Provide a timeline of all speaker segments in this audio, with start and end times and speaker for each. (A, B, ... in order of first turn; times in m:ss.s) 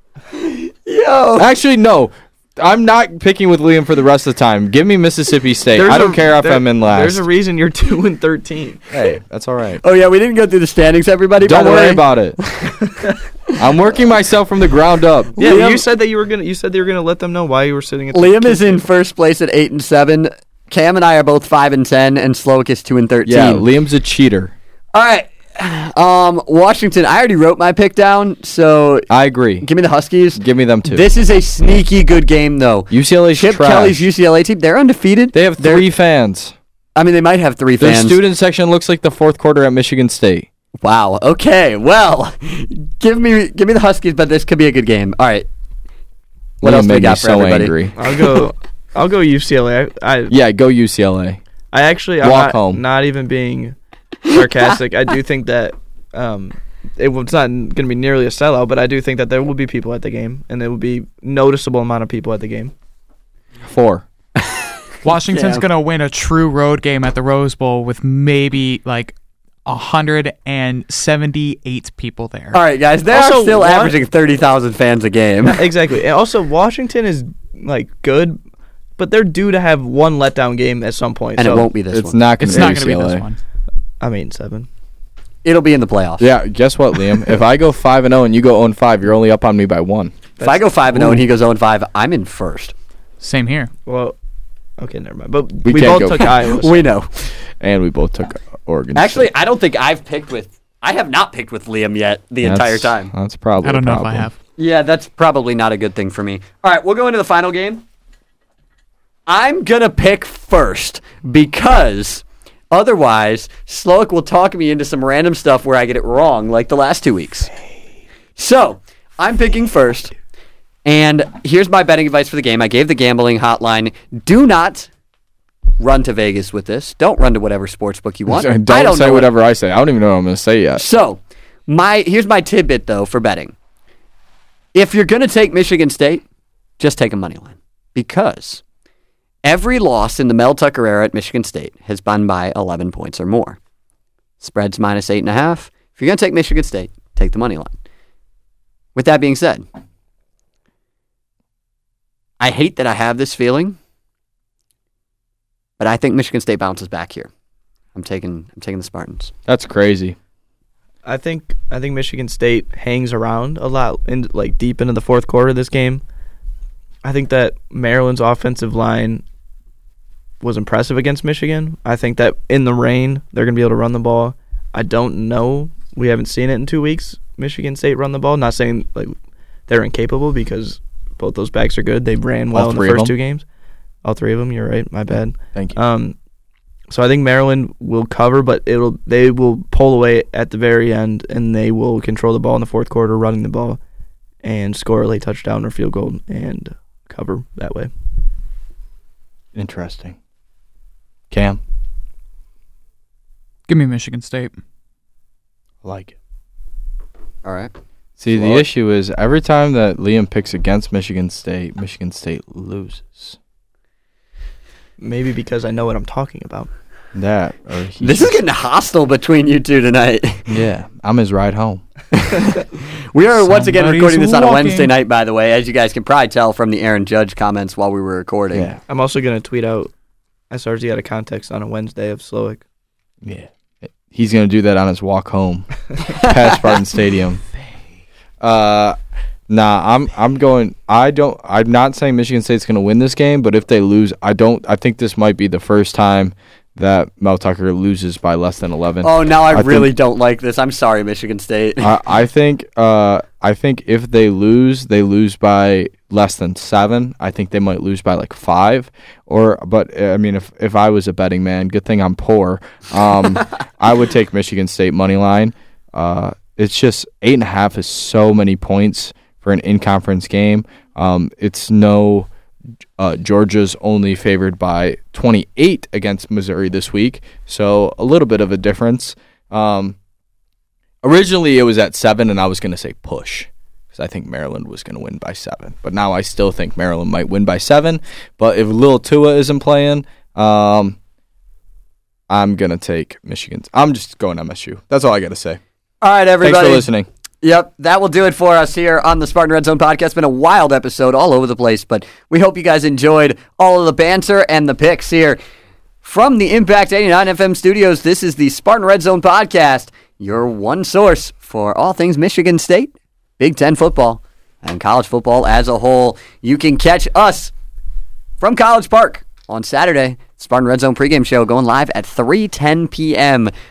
0:00.4-0:01.5 A
0:01.4-0:07.2 B
0:05.8-0:08.9 C
0:08.9-0:09.8 B
0:09.8-0:12.7 A
0:11.4-0:12.4 B
0:13.6-0:15.3 B
0:15.4-0:15.8 A
0:15.4-0:18.8 C
0:18.1-0:23.7 A
0:23.2-0:24.5 B
0:24.9-0:29.1 A
0:29.1-0:29.7 B
0:29.6-0:35.9 A
0:30.4-0:31.1 B
0:32.9-0:34.0 B
0:35.3-0:36.6 B
0:37.0-0:38.2 A
0:37.8-0:40.5 B
0:40.8-0:45.5 A
0:46.6-0:47.8 A
0:46.6-0:48.0 B
0:48.0-0:50.4 C
0:50.3-0:51.4 B
0:51.7-0:53.8 C
0:52.2-0:52.8 B
0:54.3-1:02.7 C
1:03.6-1:04.1 B
1:04.4-1:04.7 A
1:05.0-1:09.2 D
1:05.3-1:05.6 A
1:09.7-1:12.6 D
1:12.5-1:15.6 A
1:13.1-1:14.0 C
1:15.4-1:18.4 C
1:19.0-1:21.7 C
1:21.4-1:22.6 A
1:21.9-1:23.2 B
1:22.4-1:23.4 D
1:24.0-1:24.7 C
1:25.4-1:26.3 A
1:26.2-1:30.1 B
1:30.4-1:31.2 C
1:30.4-1:32.7 A
1:33.2-1:33.7 D
1:33.9-1:34.2 C
1:34.8-1:36.8 C
1:35.6-1:36.3 B
1:36.2-1:37.3 A
1:37.6-1:39.3 B
1:39.0-1:43.1 A
1:42.4-1:44.3 B
1:43.6-1:44.4 D
1:44.6-1:47.8 A
1:49.3-1:57.5 A
1:58.4-2:00.1 A
2:00.8-2:04.9 A
2:05.8-2:09.3 A
2:08.3-2:10.8 B
2:10.8-2:13.6 A
2:14.7-2:16.2 A
2:16.8-2:18.6 A
2:19.4-2:23.6 A
2:24.4-2:27.8 A
2:29.0-2:29.7 A
2:32.4-2:33.8 A
2:35.8-2:37.3 A
2:38.0-2:39.3 A
2:39.5-2:40.2 B
2:41.0-2:46.0 C
2:47.0-2:49.2 C
2:50.4-2:59.1 C
2:59.7-3:03.4 C
3:02.5-3:03.2 B
3:04.0-3:06.2 C
3:06.9-3:13.8 C
3:14.4-3:17.9 C
3:19.6-3:20.2 B
3:21.3-3:21.6 B
3:23.7-3:24.6 D
3:25.8-3:26.2 B
3:27.4-3:27.7 A
3:28.2-3:33.4 B
3:28.3-3:28.6 A
3:35.0-3:36.7 C
3:37.1-3:38.4 B
3:38.0-3:40.5 A
3:40.5-3:41.8 B
3:42.2-3:48.7 A
3:43.3-3:44.9 D
3:48.5-3:48.8 B
3:48.9-3:49.9 C
3:50.5-3:52.6 C
3:53.2-3:57.4 B
3:56.1-3:56.7 A
3:58.4-3:59.0 B
3:59.5-4:09.9 B
4:09.0-4:12.0 A
4:11.8-4:32.3 B
4:33.0-4:40.0 B
4:41.0-4:51.0 B
4:52.3-4:55.6 B
4:56.0-4:56.9 A
4:56.4-4:57.1 B
4:57.4-5:05.4 A
5:06.0-5:17.5 A
5:18.4-5:23.5 A